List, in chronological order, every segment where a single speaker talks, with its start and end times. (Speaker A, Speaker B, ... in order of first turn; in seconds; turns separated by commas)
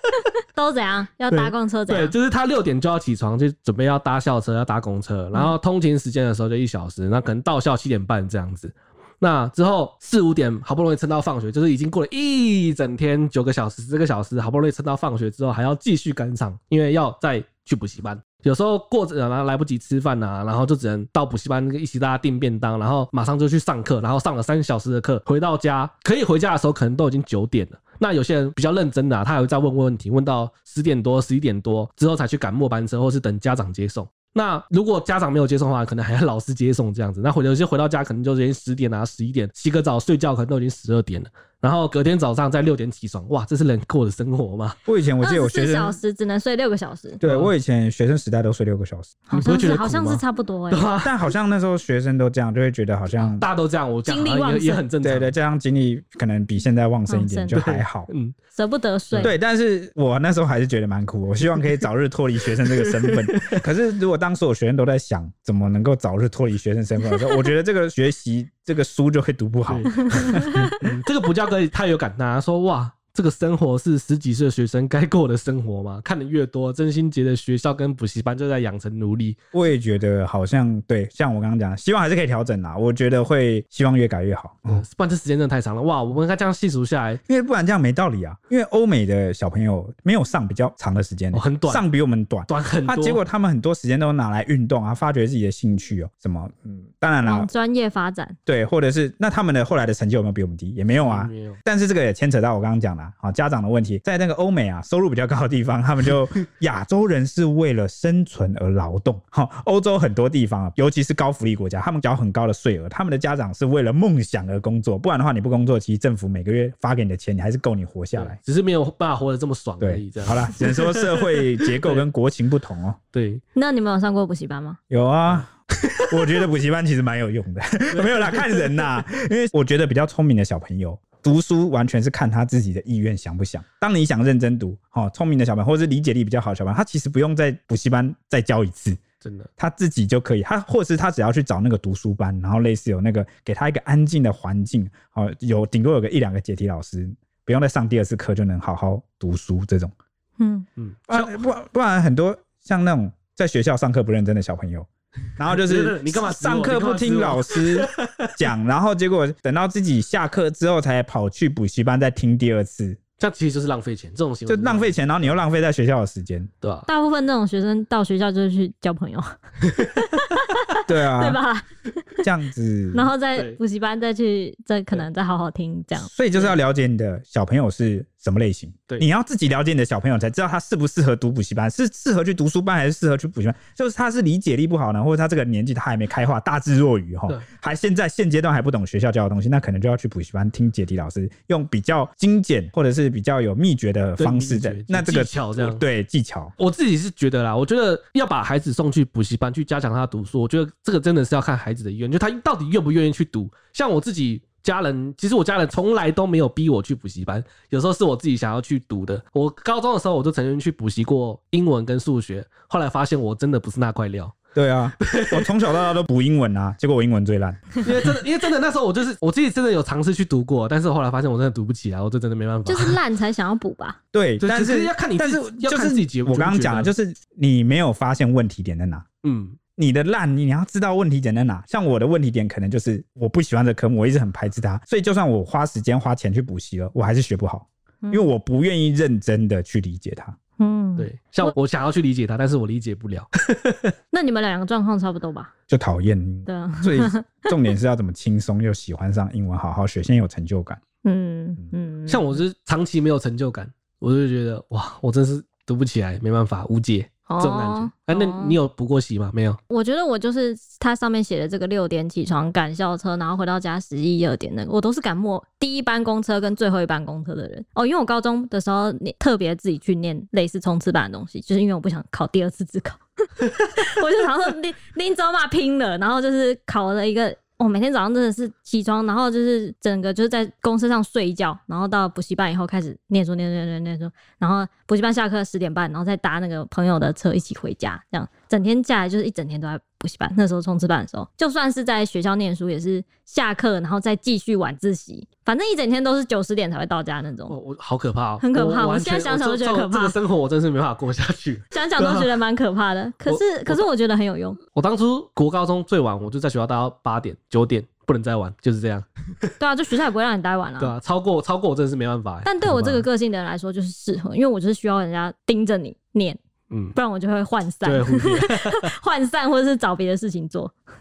Speaker A: 0.6-2.1, Speaker B: 1.3-44.8, Speaker C: 44.9-46.0, Speaker A: 45.2-47.2, Speaker C: 47.2-49.2, Speaker B: 47.2-47.5, Speaker A: 49.3-50.9, Speaker B: 49.3-51.3, Speaker C: 51.0-53.5, Speaker B: 53.1-55.3, Speaker A: 54.1-54.8, Speaker C: 55.0-58.1, Speaker A: 57.1-57.6, Speaker B: 57.5-58.4, Speaker A: 58.5-59.3, Speaker C: 59.2-70.7, Speaker B: 62.7-63.6, Speaker B: 69.7-79.4, Speaker A: 70.1-70.8, Speaker C: 79.5-84.8, Speaker B: 84.7-87.2, Speaker C: 87.3-97.5, Speaker B: 91.3-91.8, Speaker B: 92.5-93.2, Speaker A: 97.2-98.3, Speaker C: 98.5-118.4, Speaker B: 101.0-101.6, Speaker B: 118.2-122.0, Speaker C: 119.8-123.0, Speaker B: 123.1-123.4, Speaker A: 123.5-124.8, Speaker C: 124.9-125.5, Speaker B: 125.3-126.2, Speaker C: 126.1-139.0, Speaker B: 127.9-128.8, Speaker B: 139.2-139.5, Speaker C: 139.6-149.9, Speaker A: 150.4-150.7, Speaker B: 150.8-151.4, Speaker C: 151.1-163.0, Speaker B: 155.4-158.3, Speaker B: 163.2-165.0, Speaker C: 164.5-166.5, Speaker B: 166.6-166.9, Speaker A: 166.9-171.7, Speaker C: 170.9-171.4, Speaker C: 172.2-173.1, Speaker A: 172.9-176.1, Speaker C: 176.0-196.5, Speaker B: 194.2-195.8, Speaker B: 196.6-214.4, Speaker C: 214.6-217.9, Speaker B: 215.0-215.5, Speaker B: 217.8-223.0, Speaker A: 222.7-224.0, Speaker C: 224.1-229.1, Speaker B: 224.4-226.9, Speaker B: 229.2-229.6, Speaker C: 229.8-240.4, Speaker A: 238.0-238.3, Speaker A: 240.6-241.5, Speaker B: 241.0-243.9, Speaker A: 244.1-245.5, Speaker C: 245.7-250.8, Speaker A: 246.5-247.4, Speaker A: 251.0-252.4, Speaker B: 252.1-259.6, Speaker A: 257.3-258.6, Speaker A: 259.7-297.6, Speaker B: 297.5-302.3, Speaker A: 298.4-300.2, Speaker A: 301.7-304.6, Speaker B: 303.3-303.9, Speaker B: 304.7-309.5, Speaker A: 309.6-310.9, Speaker B: 310.8-313.1, Speaker A: 312.4-316.4, Speaker B: 316.7-317.0, Speaker A: 316.9-320.7, Speaker B: 317.8-318.9